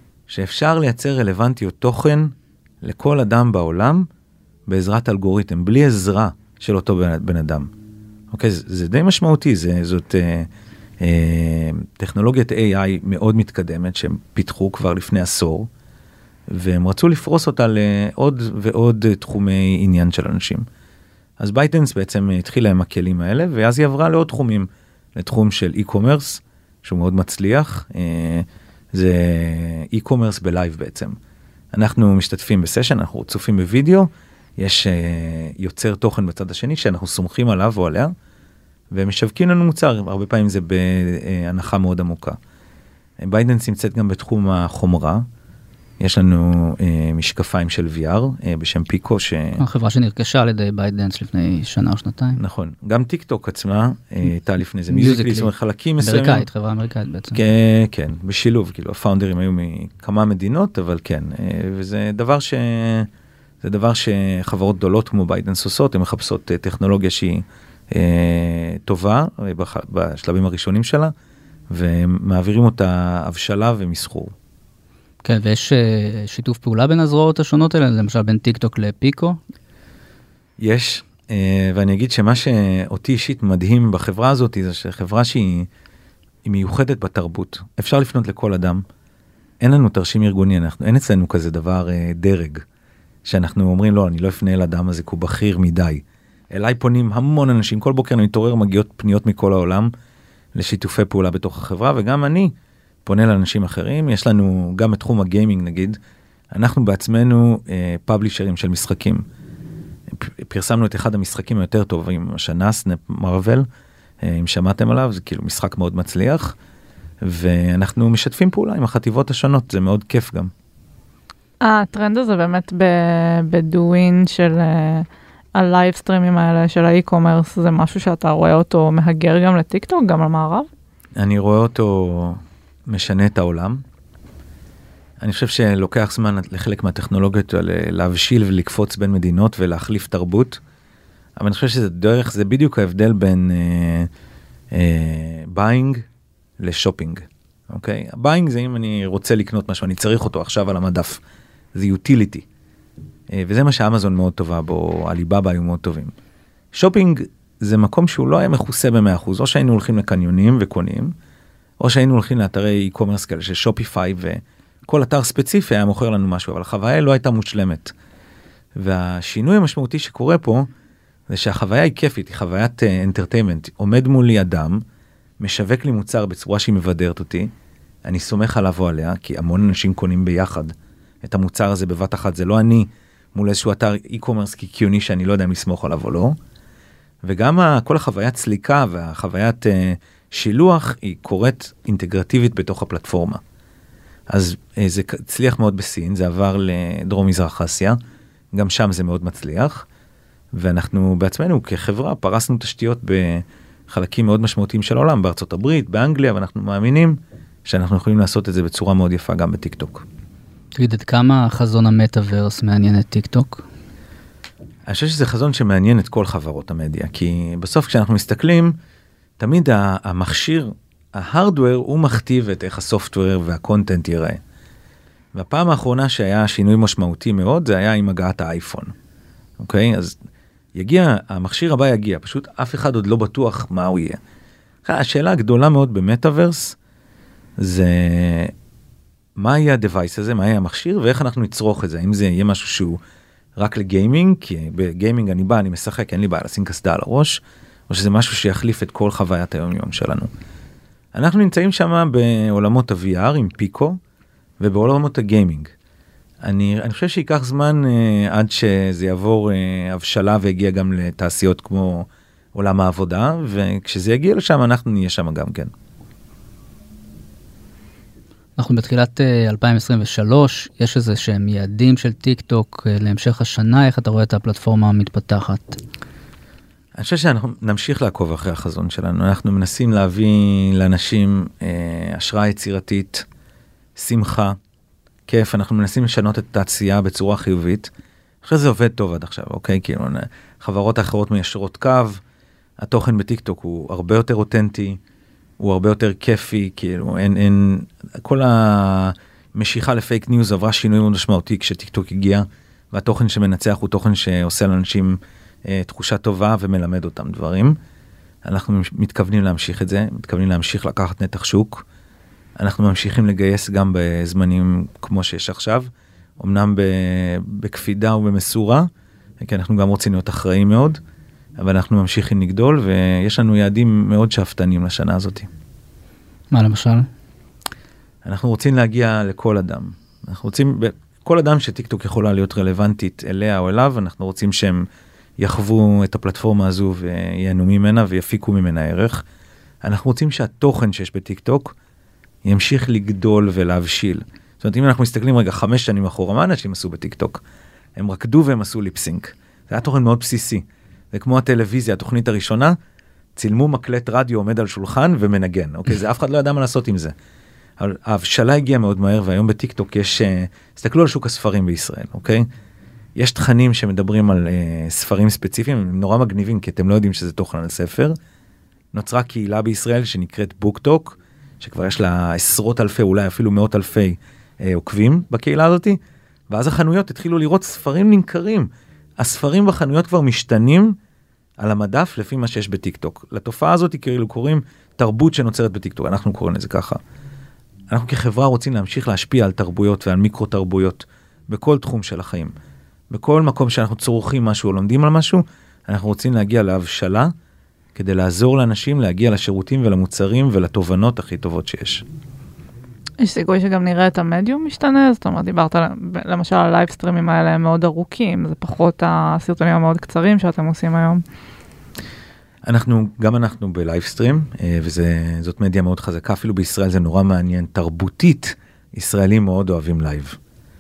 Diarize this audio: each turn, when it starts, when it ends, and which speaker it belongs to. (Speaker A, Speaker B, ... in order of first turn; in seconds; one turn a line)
Speaker A: 0.3-4.1
Speaker A: 4.7-7.7
Speaker A: 8.3-10.5
Speaker A: 11.0-15.7
Speaker A: 16.5-20.7
Speaker A: 21.4-31.1
Speaker A: 31.7-38.1
Speaker A: 38.9-42.4
Speaker A: 43.2-45.2
Speaker A: 46.0-49.6
Speaker B: 49.6-52.4
Speaker A: 52.4-56.5
Speaker B: 54.9-57.4
Speaker A: 57.3-63.1
Speaker A: 63.6-71.1
Speaker A: 71.7-74.3
Speaker B: 75.2-79.4
Speaker A: 80.6-85.7
Speaker A: 86.5-88.8
Speaker A: 89.6-92.7
Speaker A: 93.3-99.9
Speaker A: 100.5-102.5
Speaker A: 103.0-106.0
Speaker A: 106.5-109.2
Speaker A: 110.1-113.7
Speaker A: 114.2-116.6
Speaker A: 117.2-120.5
Speaker C: 121.6-130.7
Speaker A: 131.2-133.8
Speaker A: 135.2-140.6
Speaker A: 141.4-144.1
Speaker A: 144.7-146.1
Speaker A: 146.6-151.2
Speaker A: 151.8-152.5
Speaker A: 153.3-156.1
Speaker A: 156.7-161.1
Speaker A: 161.8-167.9
Speaker A: 168.8-170.7
Speaker A: 171.3-174.8
Speaker A: 175.4-177.5
Speaker A: 178.1-186.4
Speaker A: 187.2-193.4
Speaker A: 194.3-198.0
Speaker A: 198.5-199.9
Speaker A: 200.5-210.1
Speaker B: 210.8-213.7
Speaker A: 214.9-218.8
Speaker A: 219.4-224.4
Speaker A: 225.3-228.9
Speaker A: 229.6-230.2
Speaker A: 230.8-234.2
Speaker A: 234.8-236.8
Speaker A: 237.6-238.5
Speaker A: 239.4-243.0
Speaker A: 243.6-250.3
Speaker A: 251.1-254.0
Speaker A: 254.6-255.7
Speaker A: 256.4-265.7
Speaker B: 268.6-275.8
Speaker A: 277.0-283.2
Speaker A: 284.0-284.6
Speaker A: 285.3-287.9
Speaker A: 288.4-292.2
Speaker A: 292.8-295.0
Speaker A: 295.6-307.8
Speaker A: 308.5-311.9
Speaker A: 312.6-315.9
Speaker A: 316.4-318.9
Speaker A: 319.4-321.0
Speaker A: 321.6-325.5
Speaker B: 326.5-327.1
Speaker A: 328.2-334.9
Speaker A: 335.4-339.2
Speaker A: 339.8-341.8
Speaker A: 342.4-347.4
Speaker A: 348.0-352.8
Speaker A: 353.4-357.1
Speaker A: 357.8-362.5
Speaker A: 363.2-368.1
Speaker A: 368.9-381.0
Speaker A: 381.6-387.0
Speaker A: 387.9-392.5
Speaker A: 393.1-397.3
Speaker A: 397.9-402.1
Speaker C: 403.2-411.2
Speaker A: 412.6-420.4